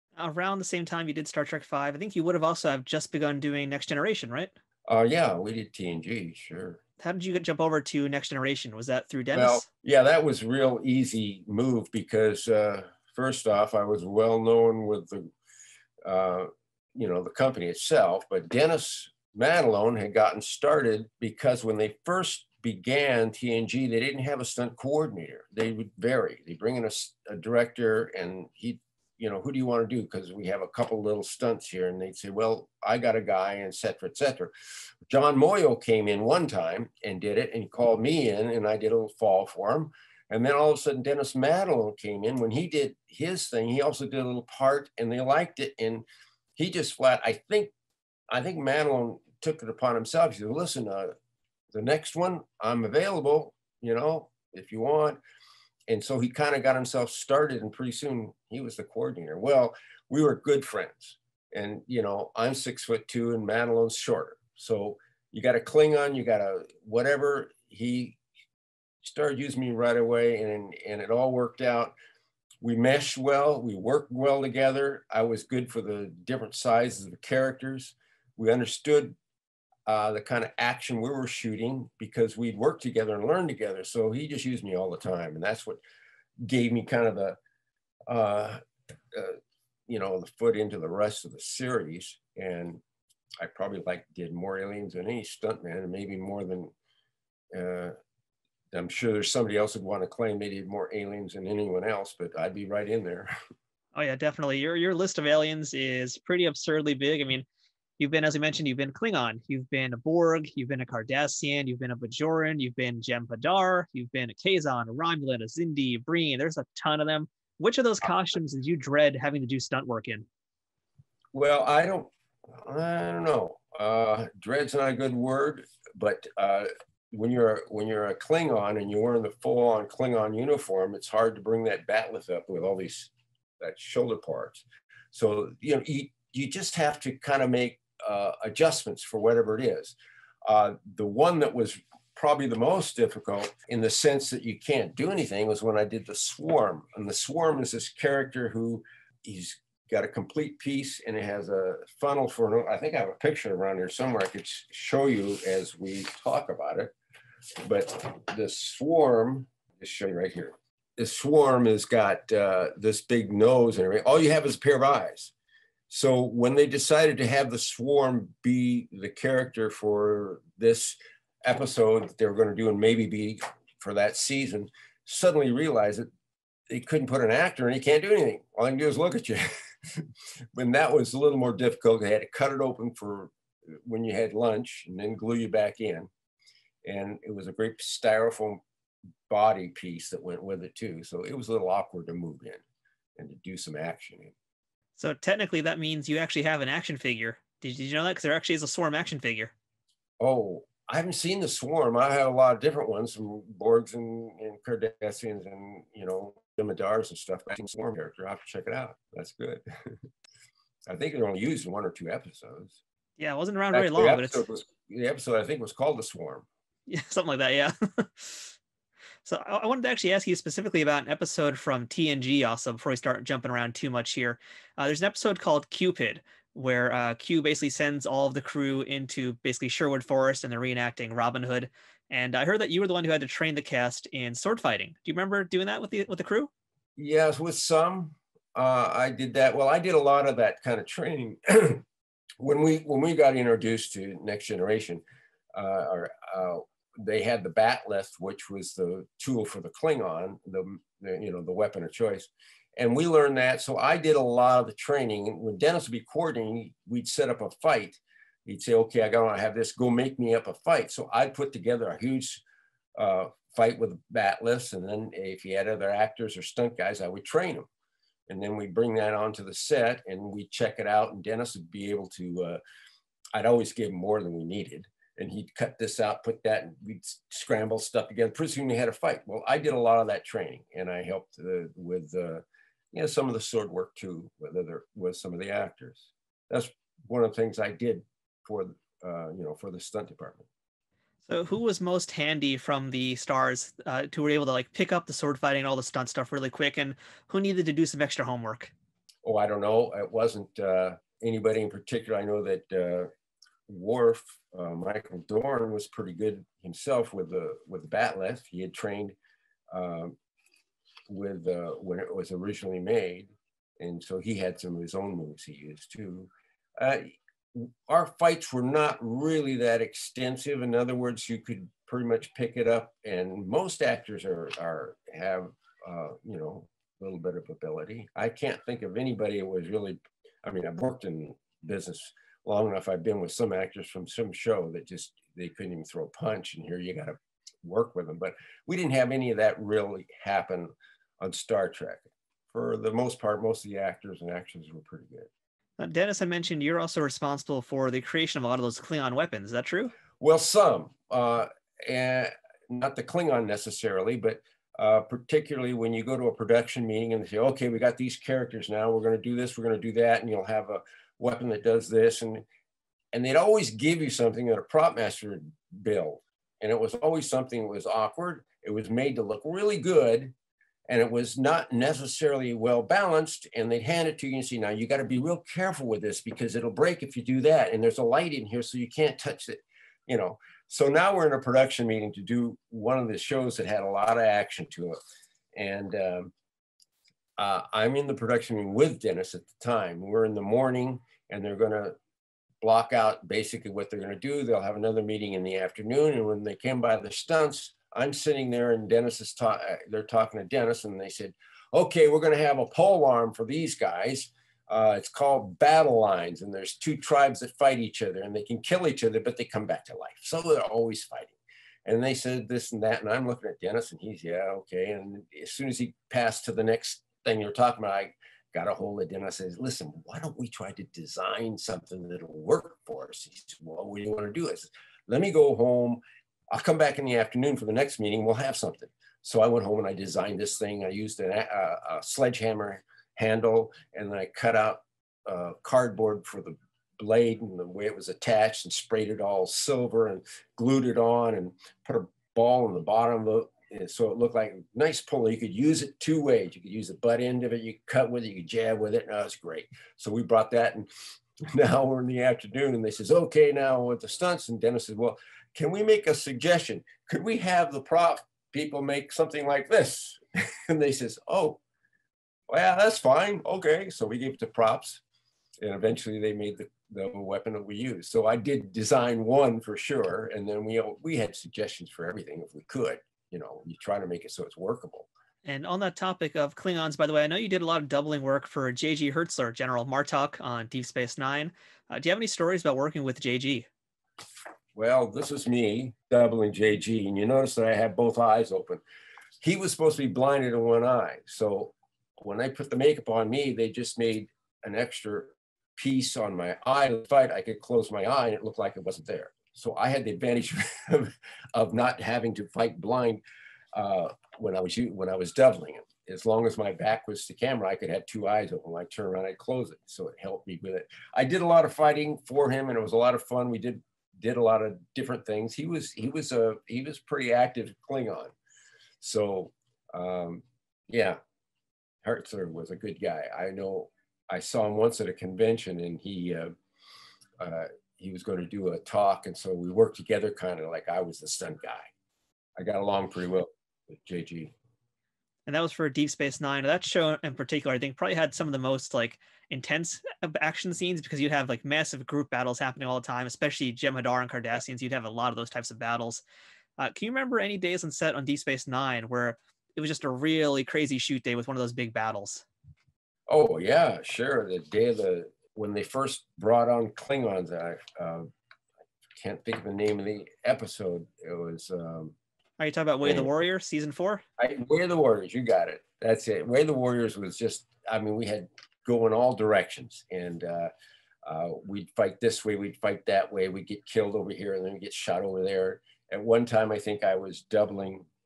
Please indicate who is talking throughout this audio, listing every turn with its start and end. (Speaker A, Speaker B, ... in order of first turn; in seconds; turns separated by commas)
Speaker A: 0.1-4.5, Speaker B: 4.9-6.8, Speaker A: 7.0-9.6, Speaker B: 9.3-15.3, Speaker B: 16.0-34.5, Speaker B: 35.1-46.0, Speaker B: 46.5-47.7, Speaker B: 48.3-51.1, Speaker B: 51.7-55.2, Speaker B: 55.9-68.2, Speaker B: 69.0-71.9, Speaker B: 72.6-79.2, Speaker B: 79.9-85.8, Speaker B: 86.4-87.4, Speaker B: 88.1-88.6, Speaker B: 89.1-92.8, Speaker B: 93.4-96.7, Speaker B: 97.5-97.9, Speaker B: 98.7-103.3, Speaker A: 103.9-107.5, Speaker A: 108.0-120.2, Speaker B: 121.3-156.9, Speaker B: 157.6-165.3, Speaker B: 165.9-176.1, Speaker B: 176.7-186.1, Speaker B: 186.8-188.6, Speaker B: 189.3-192.6, Speaker B: 193.2-194.3, Speaker A: 195.0-199.5, Speaker B: 200.2-209.6, Speaker B: 210.9-212.8, Speaker A: 213.2-214.4, Speaker B: 213.7-216.4, Speaker A: 216.9-218.5, Speaker A: 219.2-236.5, Speaker B: 237.0-241.8, Speaker B: 242.4-245.0, Speaker B: 245.5-262.4, Speaker B: 262.9-267.7, Speaker B: 268.3-272.6, Speaker B: 273.3-290.4, Speaker A: 291.2-298.7, Speaker B: 299.2-303.1, Speaker B: 303.7-309.1, Speaker B: 309.7-310.1, Speaker B: 311.1-345.3, Speaker A: 345.8-349.9, Speaker B: 350.2-362.4, Speaker B: 363.1-370.3, Speaker B: 370.9-385.0, Speaker B: 385.5-386.3, Speaker B: 387.4-392.0, Speaker B: 392.6-426.0, Speaker B: 426.5-450.9, Speaker B: 451.5-461.6, Speaker B: 462.5-465.0, Speaker B: 465.6-475.1, Speaker A: 475.4-483.7, Speaker B: 484.8-488.8, Speaker B: 489.4-503.2, Speaker B: 503.7-518.3, Speaker B: 519.0-521.2, Speaker B: 522.0-526.5, Speaker B: 527.4-531.9, Speaker B: 532.6-534.5, Speaker A: 535.5-546.2, Speaker A: 546.8-552.4, Speaker B: 553.3-558.3, Speaker B: 559.2-562.1, Speaker A: 562.6-564.2, Speaker B: 563.0-563.3, Speaker B: 564.4-570.7, Speaker B: 571.2-578.0